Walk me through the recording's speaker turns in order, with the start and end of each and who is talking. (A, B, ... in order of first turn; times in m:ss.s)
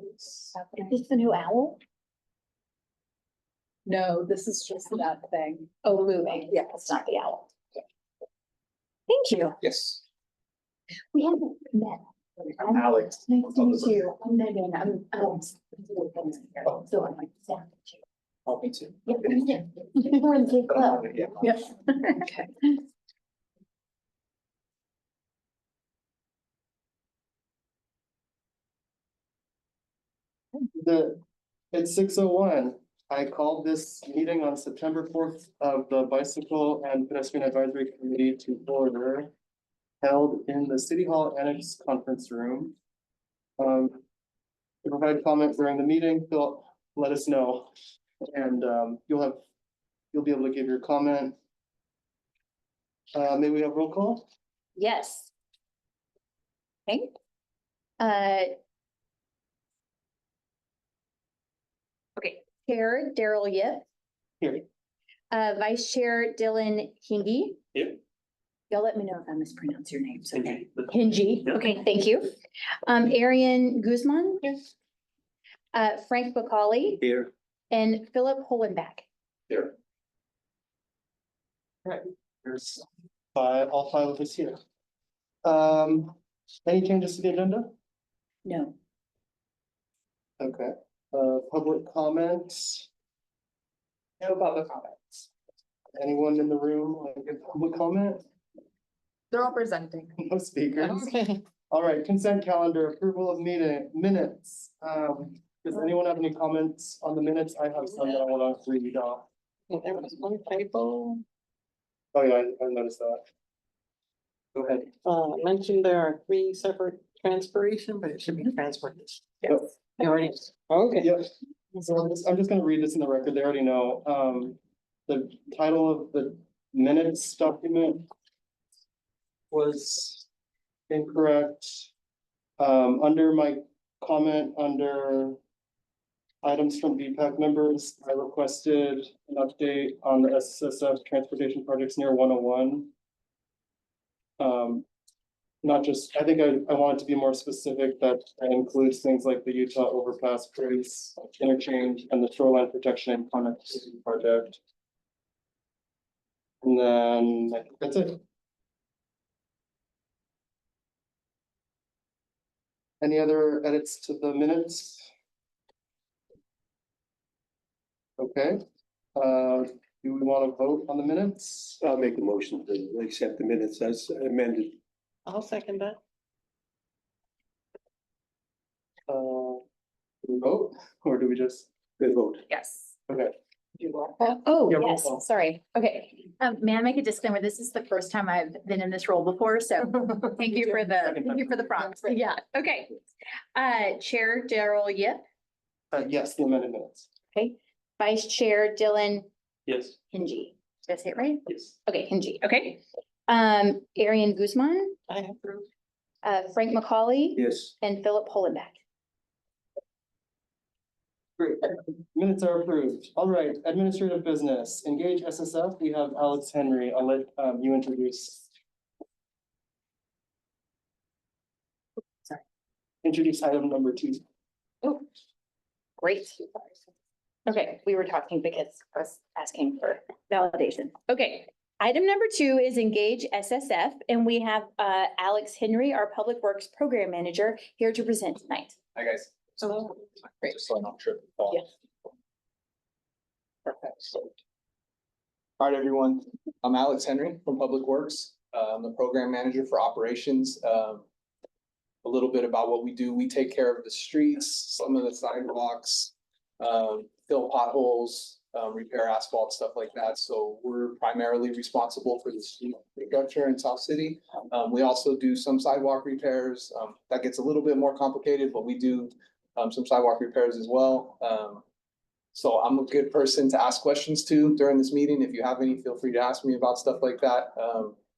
0:00.5-0:01.8 A
0:03.8-0:05.8 B
0:05.8-0:07.5 A
0:09.1-0:09.6 A
0:09.6-0:10.0 C
0:11.1-0:18.0 A
0:12.8-0:13.1 C
0:18.4-0:19.2 C
0:19.0-0:22.8 A
0:21.0-0:21.3 C
0:30.8-0:31.2 D
0:31.7-0:39.3 D
0:40.0-0:42.7 D
0:43.6-0:44.0 D
0:44.8-0:47.7 D
0:48.3-0:49.4 D
0:50.1-0:51.3 D
0:53.1-0:54.2 D
0:54.8-0:55.3 A
0:56.9-0:57.1 A
0:58.0-0:58.5 A
1:02.2-1:03.8 A
1:05.3-1:07.6 A
1:08.7-1:12.3 A
1:12.8-1:14.5 A
1:15.7-1:17.0 A
1:17.7-1:19.0 A
1:21.8-1:22.8 D
1:23.3-1:24.6 D
1:25.4-1:27.7 D
1:28.4-1:28.7 A
1:30.4-1:32.9 D
1:34.2-1:35.2 D
1:36.0-1:38.2 D
1:39.3-1:40.1 B
1:40.2-1:41.1 D
1:40.8-1:41.4 E
1:41.7-1:49.2 D
1:49.7-1:51.2 E
1:52.1-1:53.2 D
1:54.5-1:54.8 D
1:54.8-2:01.1 E
2:01.0-2:08.0 D
2:09.5-2:10.2 D
2:10.9-2:11.9 D
2:12.6-2:15.4 D
2:16.4-2:22.9 D
2:24.4-2:24.8 D
2:25.6-2:34.6 D
2:36.6-2:38.2 D
2:43.0-2:45.1 D
2:48.2-2:48.6 D
2:49.2-2:51.8 D
2:51.8-2:54.7 F
2:55.2-2:56.0 E
2:59.1-2:59.6 D
3:00.2-3:01.7 D
3:02.0-3:02.4 F
3:02.5-3:02.9 A
3:03.1-3:03.3 D
3:04.2-3:13.0 A
3:04.7-3:05.2 D
3:10.9-3:12.0 D
3:13.5-3:15.2 A
3:15.9-3:17.1 D
3:17.3-3:19.3 A
3:20.1-3:25.0 A
3:25.1-3:25.6 E
3:26.2-3:28.8 A
3:27.4-3:27.7 F
3:31.4-3:38.5 D
3:43.0-3:44.2 D
3:46.0-3:46.7 A
3:47.4-3:58.8 A
3:58.9-4:01.7 C
4:03.6-4:04.3 C
4:05.6-4:11.0 C
4:12.0-4:31.6 C
4:32.3-4:38.0 C